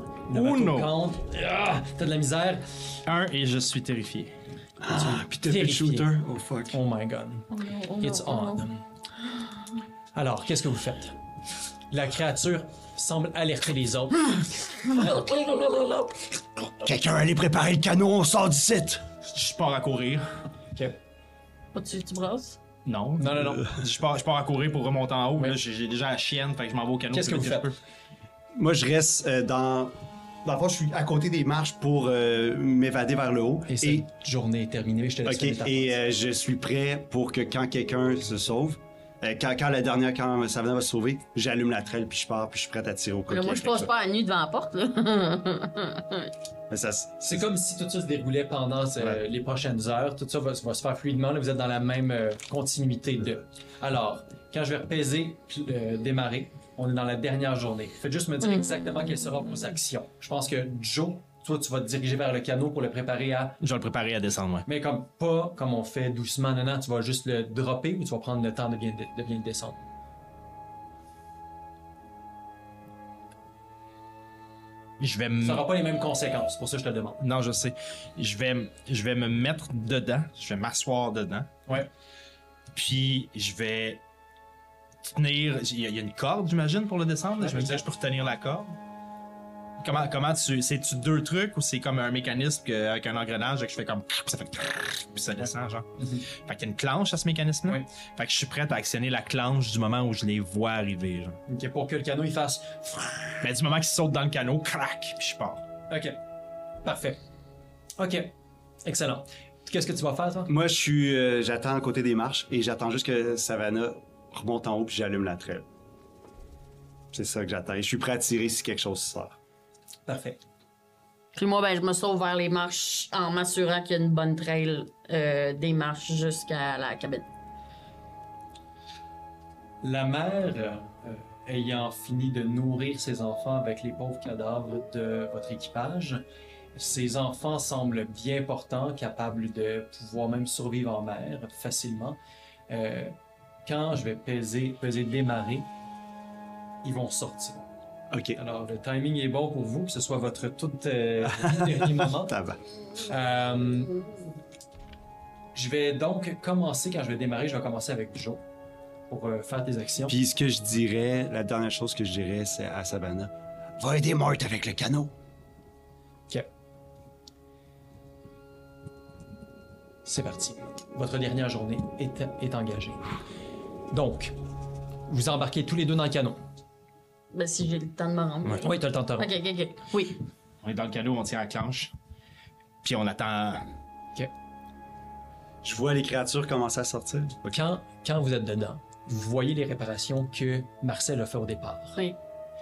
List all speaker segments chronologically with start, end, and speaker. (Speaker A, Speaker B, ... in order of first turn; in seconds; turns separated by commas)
Speaker A: 0.3-2.6, Speaker B: 0.3-1.0, Speaker B: 3.1-4.3, Speaker C: 4.8-6.8, Speaker A: 4.9-6.1, Speaker A: 6.7-8.8, Speaker D: 7.5-8.7, Speaker A: 10.1-11.2, Speaker A: 11.9-14.9, Speaker D: 14.9-16.2, Speaker C: 16.8-19.1, Speaker B: 19.3-20.4, Speaker D: 21.7-22.6, Speaker B: 22.9-27.8, Speaker A: 23.2-23.7, Speaker A: 27.1-27.8, Speaker C: 28.6-34.1, Speaker A: 33.7-36.0, Speaker C: 35.2-43.9, Speaker D: 43.3-46.3, Speaker C: 46.7-47.5, Speaker A: 47.2-63.6, Speaker B: 63.6-64.7, Speaker A: 64.7-69.8, Speaker B: 75.0-75.7, Speaker A: 75.4-77.2, Speaker B: 77.2-81.5, Speaker B: 82.7-84.0, Speaker B: 85.2-88.8, Speaker A: 87.4-87.8, Speaker B: 89.8-101.4, Speaker A: 96.0-96.3, Speaker A: 101.5-103.4, Speaker B: 103.4-105.7, Speaker A: 105.9-106.2, Speaker A: 106.8-107.2, Speaker A: 108.0-108.3, Speaker A: 108.8-110.5, Speaker C: 110.5-115.7, Speaker C: 117.1-119.4, Speaker A: 120.1-120.4, Speaker D: 121.3-127.3, Speaker A: 129.8-136.2, Speaker A: 136.8-142.2, Speaker A: 142.7-145.7, Speaker A: 146.8-147.7, Speaker C: 148.1-148.4, Speaker A: 148.3-152.4, Speaker C: 151.2-152.6, Speaker A: 153.1-154.0, Speaker A: 155.5-158.4, Speaker A: 159.1-160.2, Speaker C: 160.1-165.1, Speaker A: 170.1-173.0, Speaker A: 173.9-174.3, Speaker A: 175.1-176.4, Speaker D: 177.3-180.2, Speaker A: 178.6-179.3, Speaker B: 180.6-181.9, Speaker B: 182.8-183.7, Speaker C: 185.6-187.4, Speaker A: 187.4-192.0